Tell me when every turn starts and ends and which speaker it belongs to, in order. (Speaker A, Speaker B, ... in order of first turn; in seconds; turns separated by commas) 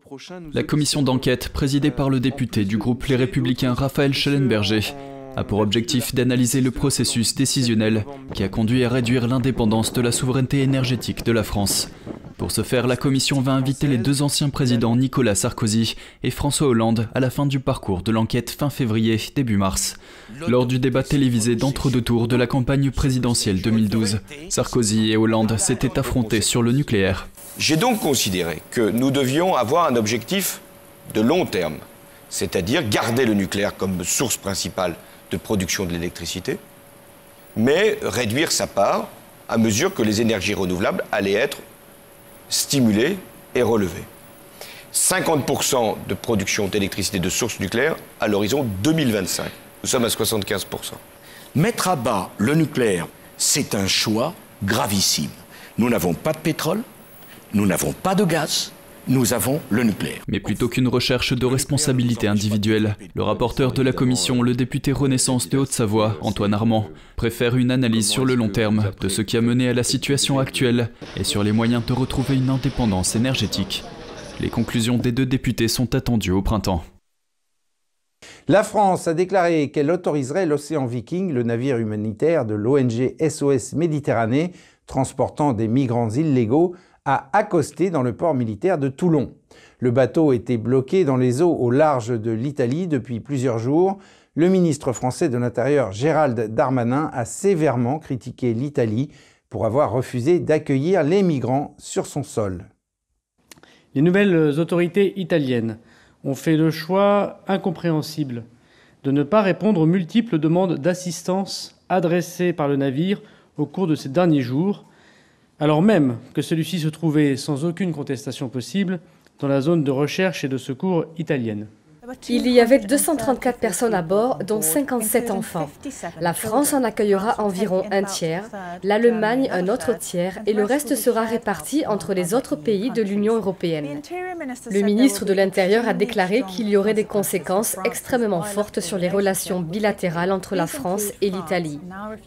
Speaker A: 0.5-27.3, Speaker B: 27.6-36.6, Speaker B: 37.6-41.6, Speaker B: 42.5-44.1, Speaker B: 44.9-51.0, Speaker C: 51.6-56.8, Speaker C: 57.5-60.2, Speaker A: 60.3-73.8, Speaker A: 74.4-76.9, Speaker D: 78.5-102.7, Speaker E: 103.9-108.5, Speaker E: 109.0-114.8, Speaker E: 115.6-121.7, Speaker F: 122.3-134.0, Speaker F: 134.7-141.8